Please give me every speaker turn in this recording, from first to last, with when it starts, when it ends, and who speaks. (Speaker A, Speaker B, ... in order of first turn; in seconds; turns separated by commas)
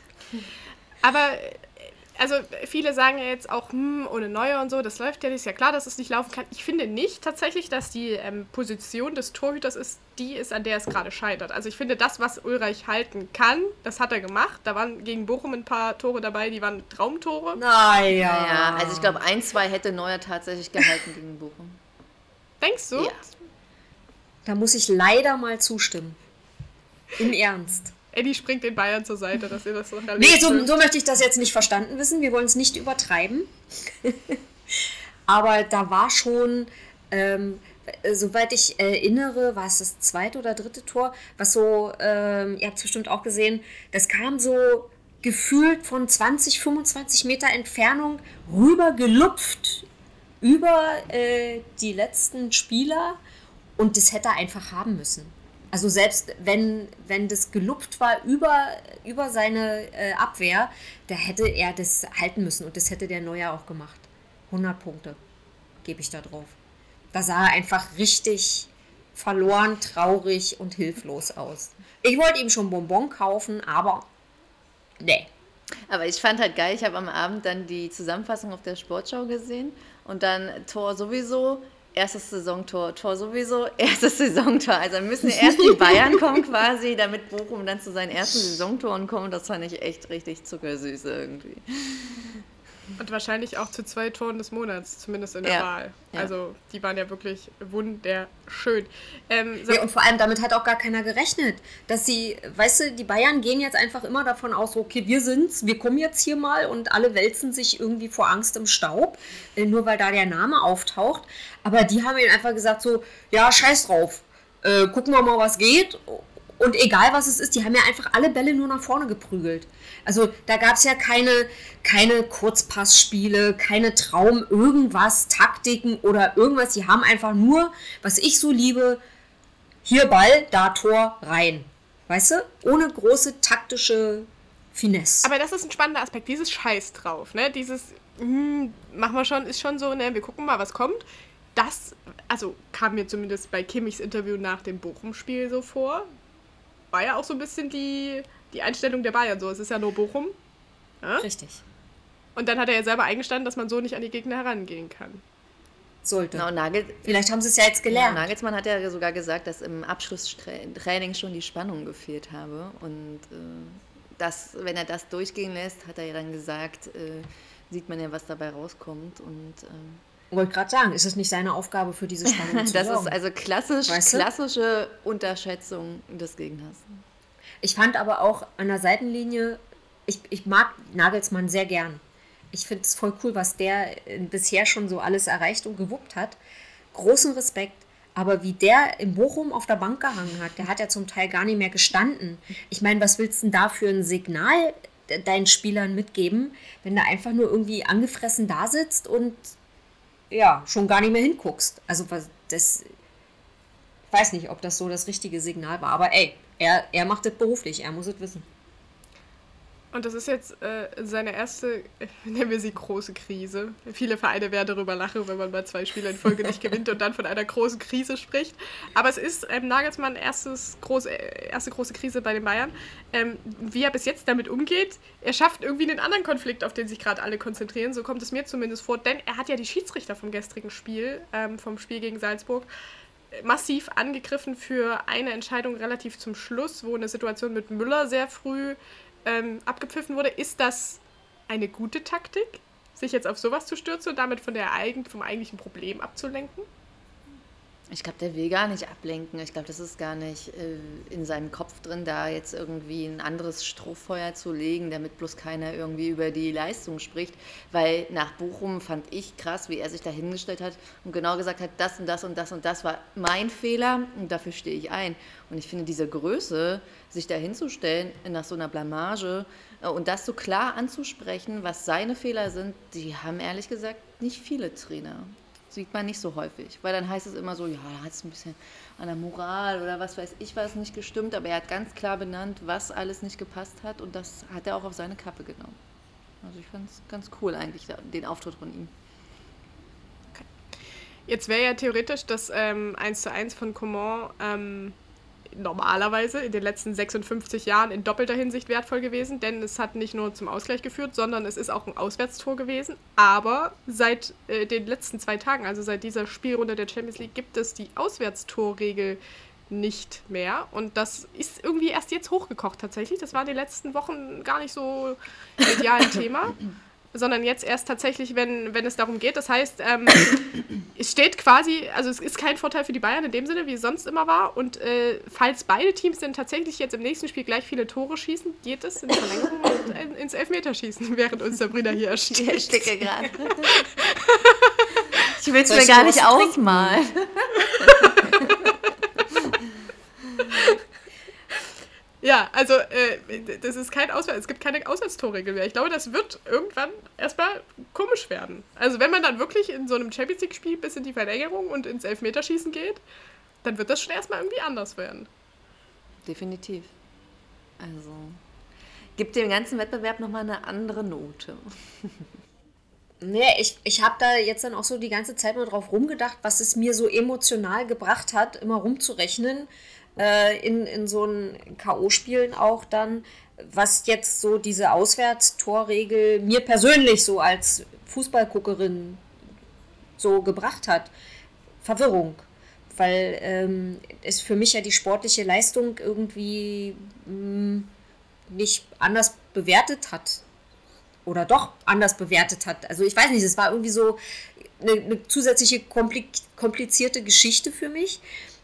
Speaker A: 1.0-17.6, Speaker B: 17.6-19.2, Speaker C: 18.2-21.8, Speaker A: 22.6-23.2, Speaker B: 24.4-26.2, Speaker B: 27.2-27.9, Speaker A: 28.1-30.7, Speaker B: 30.2-34.4, Speaker B: 35.3-49.9, Speaker B: 50.4-53.2, Speaker B: 53.8-65.2, Speaker B: 65.8-66.5, Speaker B: 67.1-74.0, Speaker B: 75.0-75.3, Speaker C: 75.9-92.3, Speaker B: 85.4-86.2, Speaker A: 93.0-99.8, Speaker C: 95.4-96.3, Speaker B: 99.7-129.0, Speaker B: 129.8-135.3, Speaker A: 135.2-146.1, Speaker A: 146.9-150.3, Speaker B: 151.2-151.6, Speaker A: 152.3-155.2, Speaker B: 156.0-156.4, Speaker C: 156.3-157.1, Speaker B: 157.0-158.3, Speaker C: 157.9-170.0, Speaker B: 170.3-173.1, Speaker C: 172.2-177.0, Speaker B: 173.9-174.3, Speaker B: 177.6-182.0, Speaker B: 182.5-186.4, Speaker B: 186.9-199.5, Speaker B: 200.3-202.9, Speaker B: 204.1-208.4, Speaker A: 209.9-232.7, Speaker A: 233.3-246.7, Speaker C: 247.9-285.8, Speaker C: 286.4-288.9, Speaker A: 291.3-295.0, Speaker A: 295.5-316.6, Speaker A: 317.1-320.3, Speaker A: 320.9-332.9, Speaker C: 332.3-333.8, Speaker A: 333.7-334.8, Speaker C: 335.3-338.5, Speaker B: 335.6-337.0, Speaker A: 337.9-338.6, Speaker A: 342.2-353.0, Speaker A: 353.6-355.3, Speaker C: 356.2-356.9, Speaker C: 357.8-358.4, Speaker C: 359.2-361.6, Speaker B: 363.2-379.2, Speaker B: 380.2-381.1, Speaker B: 381.8-387.9, Speaker B: 388.5-390.4, Speaker B: 391.2-394.2, Speaker B: 394.8-398.2